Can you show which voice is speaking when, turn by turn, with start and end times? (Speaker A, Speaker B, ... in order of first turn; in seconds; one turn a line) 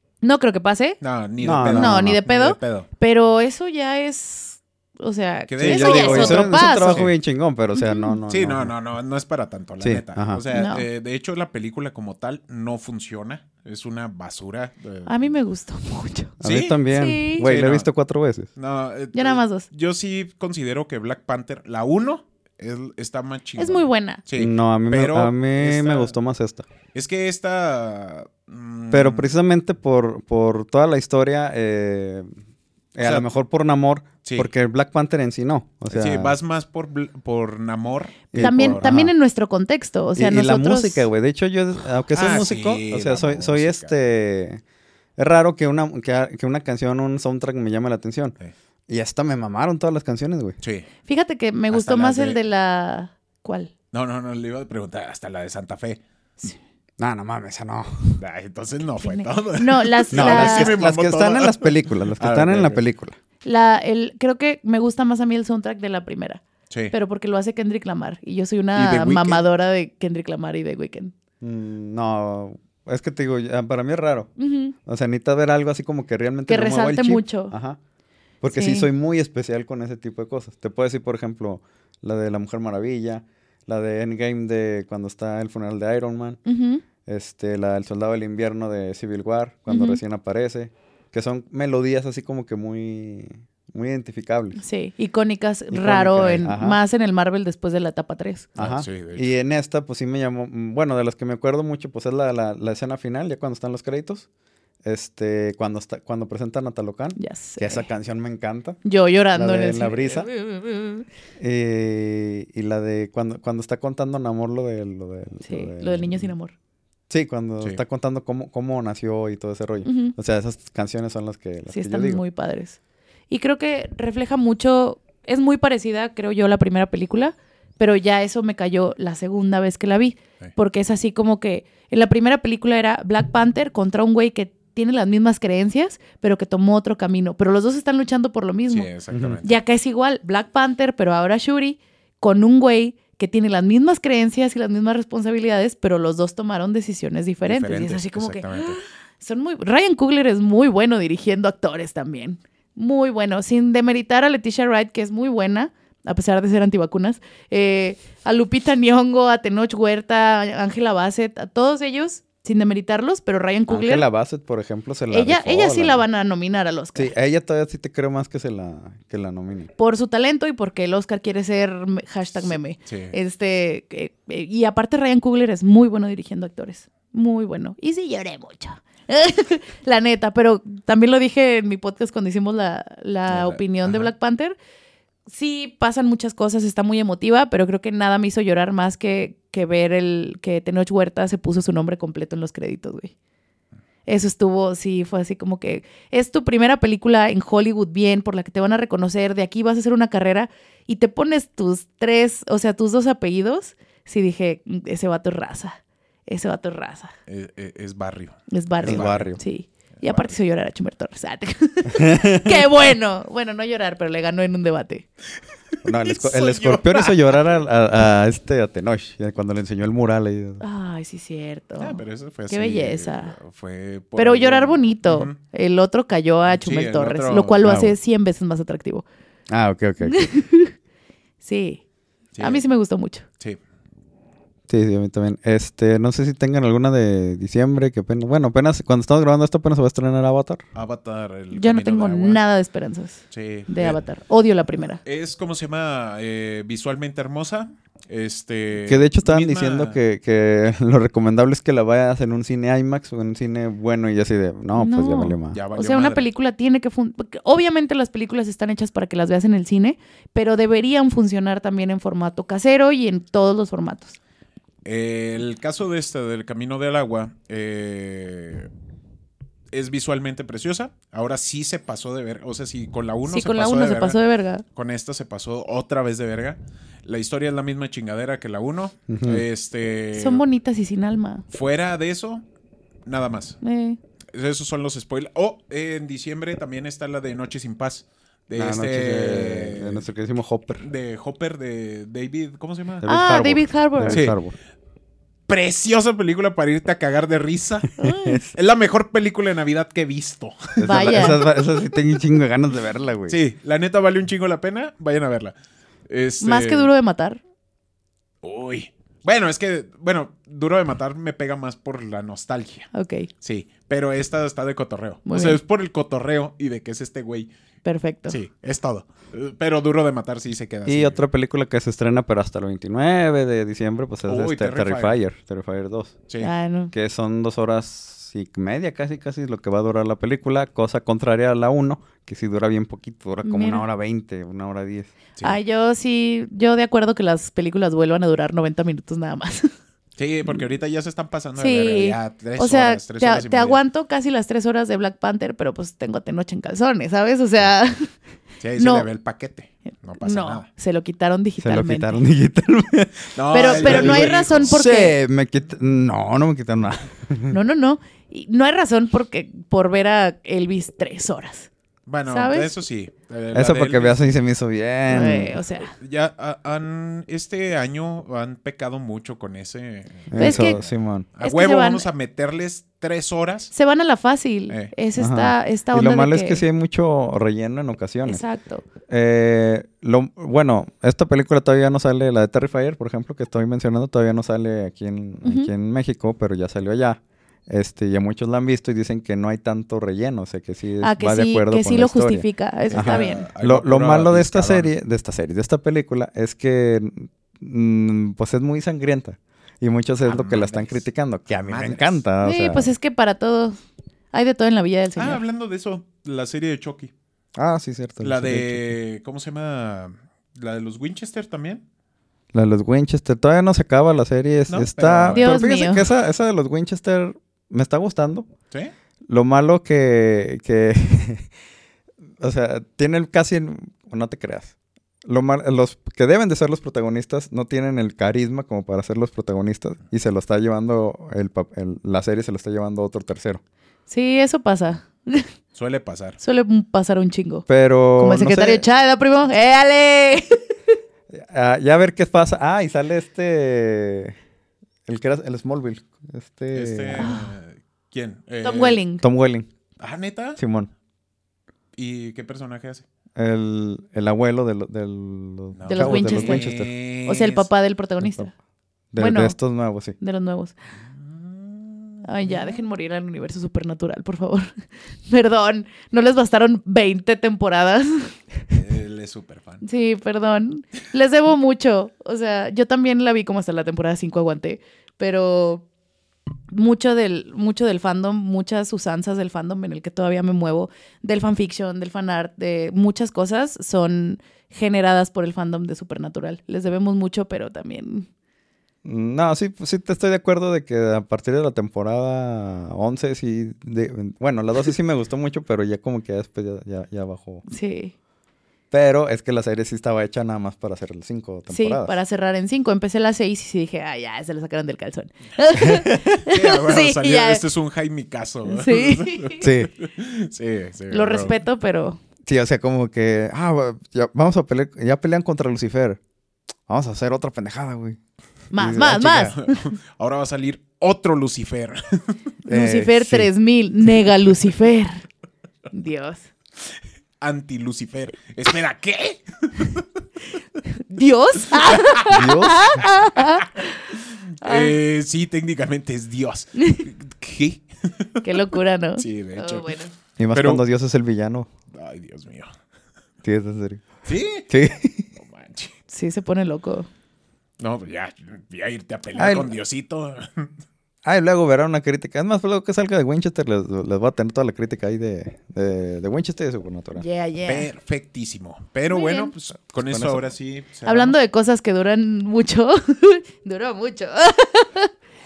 Speaker A: 0.2-1.0
Speaker B: 1.0-2.9
Speaker C: 1.4-2.2
Speaker A: 1.6-7.1
Speaker B: 5.5-7.1
Speaker C: 5.6-8.7
Speaker A: 7.8-8.2
Speaker B: 8.3-15.3
Speaker C: 9.8-10.4
Speaker A: 10.5-10.9
Speaker A: 15.1-16.4
Speaker C: 16.4-18.5
Speaker B: 16.4-16.9
Speaker A: 16.9-17.5
Speaker B: 17.4-17.9
Speaker B: 18.6-26.1
Speaker A: 19.1-19.7
Speaker A: 23.6-24.2
Speaker C: 24.4-26.7
Speaker B: 26.9-29.3
Speaker C: 28.9-32.3
Speaker C: 33.0-36.4
Speaker B: 33.0-33.3
Speaker B: 34.2-34.5
Speaker B: 35.9-38.9
Speaker C: 38.3-39.1
Speaker A: 38.4-41.1
Speaker C: 40.2-44.6
Speaker B: 42.1-43.9
Speaker C: 45.2-48.4
Speaker C: 48.9-50.6
Speaker B: 50.6-50.9
Speaker A: 51.1-53.7
Speaker B: 51.7-52.4
Speaker B: 53.9-56.0
Speaker C: 57.0-58.2
Speaker B: 58.2-62.8
Speaker A: 59.0-60.8
Speaker C: 60.1-63.2
Speaker A: 63.4-71.1
Speaker B: 68.7-69.4
Speaker C: 71.4-74.3
Speaker A: 74.4-74.8
Speaker C: 74.8-77.8
Speaker A: 76.5-77.5
Speaker C: 78.4-86.4
Speaker A: 78.5-78.9
Speaker A: 86.5-86.8
Speaker C: 87.0-94.6
Speaker A: 89.7-90.0
Speaker A: 94.6-98.5
Speaker C: 95.7-96.8
Speaker C: 98.6-104.3
Speaker B: 98.6-99.3
Speaker C: 104.8-108.8
Speaker A: 107.2-107.9
Speaker A: 108.8-111.1
Speaker C: 109.3-110.3
Speaker C: 111.4-116.3
Speaker A: 115.5-116.5
Speaker C: 117.1-122.2
Speaker A: 119.8-120.2
Speaker A: 121.7-122.8
Speaker A: 123.3-138.9
Speaker B: 138.7-139.6
Speaker C: 139.1-139.4
Speaker A: 139.4-164.1
Speaker B: 147.4-148.8
Speaker C: 163.7-166.0
Speaker A: 165.1-167.1
Speaker C: 166.9-169.7
Speaker A: 169.8-184.6
Speaker B: 172.5-173.2
Speaker B: 183.3-184.1
Speaker A: 185.3-193.1
Speaker A: 194.1-207.1
Speaker B: 207.3-209.3
Speaker A: 208.5-215.1
Speaker C: 208.8-209.4
Speaker B: 209.9-210.4
Speaker C: 211.9-212.6
Speaker C: 215.8-220.6
Speaker B: 216.0-217.6
Speaker A: 220.6-223.3
Speaker B: 221.8-225.4
Speaker A: 224.2-229.1
Speaker B: 226.5-227.7
Speaker C: 227.6-227.9
Speaker C: 229.5-230.3
Speaker A: 230.0-230.7
Speaker A: 231.4-231.8
Speaker B: 232.4-232.6
Speaker A: 232.4-233.3
Speaker C: 234.7-240.6
Speaker B: 240.8-242.4
Speaker A: 241.5-245.0
Speaker B: 243.3-244.0
Speaker B: 245.0-250.0
Speaker C: 248.8-255.6
Speaker A: 254.8-264.2
Speaker B: 255.5-256.3
Speaker B: 264.9-268.7
Speaker B: 269.7-274.2
Speaker A: 273.3-274.6
Speaker B: 274.8-280.4
Speaker C: 279.1-279.4
Speaker A: 280.1-281.4
Speaker B: 281.5-282.4
Speaker B: 283.1-283.6
Speaker A: 283.6-284.0
Speaker B: 284.3-290.1
Speaker C: 288.6-290.9
Speaker B: 290.8-293.1
Speaker C: 293.0-294.6
Speaker A: 293.1-294.3
Speaker B: 294.1-294.4
Speaker B: 295.5-297.9
Speaker A: 298.0-298.4
Speaker C: 298.0-298.5
Speaker B: 298.5-301.4
Speaker C: 300.8-303.4
Speaker A: 300.9-301.5
Speaker B: 303.3-305.6
Speaker B: 306.1-306.9
Speaker A: 306.4-307.4
Speaker B: 308.4-312.9
Speaker A: 312.9-313.3
Speaker B: 313.4-317.5
Speaker A: 315.3-315.6
Speaker A: 317.9-318.4
Speaker B: 318.3-321.2
Speaker C: 320.9-326.1
Speaker B: 324.3-325.2
Speaker A: 326.4-326.9
Speaker C: 326.9-335.1
Speaker A: 333.4-333.8
Speaker A: 335.4-339.7
Speaker B: 340.2-343.8
Speaker A: 341.6-348.1
Speaker B: 348.6-350.7
Speaker A: 348.8-349.1
Speaker A: 350.2-352.2
Speaker C: 351.6-357.6
Speaker B: 353.4-354.8
Speaker A: 353.5-355.1
Speaker A: 357.5-361.7
Speaker B: 362.1-364.4
Speaker A: 362.3-362.7
Speaker C: 363.5-365.6
Speaker A: 365.1-365.9
Speaker B: 365.8-373.7
Speaker C: 370.3-371.3
Speaker A: 370.4-370.8
Speaker A: 371.4-372.1
Speaker A: 373.7-376.6
Speaker C: 375.2-378.4
Speaker A: 378.3-378.9
Speaker C: 379.1-402.9
Speaker A: 385.4-385.7
Speaker A: 391.0-393.5
Speaker B: 392.9-394.9
Speaker B: 400.3-401.1
Speaker B: 401.6-402.2
Speaker A: 402.4-403.8
Speaker A: 404.3-405.4
Speaker B: 405.2-407.1
Speaker C: 407.6-408.9
Speaker B: 408.2-411.9
Speaker C: 412.5-418.5
Speaker B: 414.7-415.5
Speaker A: 415.3-416.1
Speaker C: 419.3-421.5
Speaker C: 422.4-433.6
Speaker A: 434.1-435.5
Speaker B: 435.7-436.4
Speaker A: 436.4-437.7
Speaker C: 437.7-438.9
Speaker A: 438.2-440.6
Speaker C: 441.3-444.4
Speaker C: 445.1-447.4
Speaker B: 446.7-449.0
Speaker A: 447.2-447.5
Speaker A: 448.6-449.2
Speaker C: 449.2-449.7
Speaker B: 450.0-450.6
Speaker C: 450.6-450.9
Speaker B: 451.9-453.1
Speaker C: 453.4-456.9
Speaker B: 455.7-457.7
Speaker A: 455.9-456.7
Speaker A: 457.2-458.5
Speaker C: 458.2-458.5
Speaker C: 459.1-460.2
Speaker A: 459.2-459.6
Speaker A: 460.2-460.7
Speaker B: 461.1-462.8
Speaker A: 462.2-464.7
Speaker A: 465.3-468.6
Speaker B: 468.7-469.8
Speaker A: 469.8-475.9
Speaker A: 476.7-488.3
Speaker C: 489.0-497.6
Speaker A: 497.7-498.1
Speaker C: 498.9-502.1
Speaker A: 501.7-507.6
Speaker C: 505.8-506.4
Speaker B: 506.4-511.6
Speaker A: 508.7-509.6
Speaker C: 509.6-509.9
Speaker A: 511.1-512.2
Speaker C: 512.5-516.2
Speaker C: 516.9-518.2
Speaker A: 518.7-519.8
Speaker C: 518.8-519.6
Speaker B: 519.5-522.4
Speaker C: 522.7-523.5
Speaker A: 522.7-525.3
Speaker A: 525.9-526.5
Speaker B: 527.4-530.0
Speaker A: 531.0-535.0
Speaker B: 531.6-532.3
Speaker C: 532.2-533.1
Speaker B: 534.2-538.6
Speaker A: 536.8-537.1
Speaker A: 538.4-540.1
Speaker B: 539.2-540.0
Speaker C: 540.4-541.7
Speaker B: 540.5-540.8
Speaker B: 541.9-542.7
Speaker C: 543.4-544.1
Speaker B: 544.2-544.7
Speaker C: 544.7-545.3
Speaker B: 545.4-546.0
Speaker A: 546.1-547.1
Speaker B: 547.8-550.7
Speaker C: 549.4-549.7
Speaker C: 551.3-557.2
Speaker A: 557.1-557.9
Speaker B: 557.6-561.4
Speaker A: 559.1-559.5
Speaker C: 560.0-560.4
Speaker A: 561.0-565.1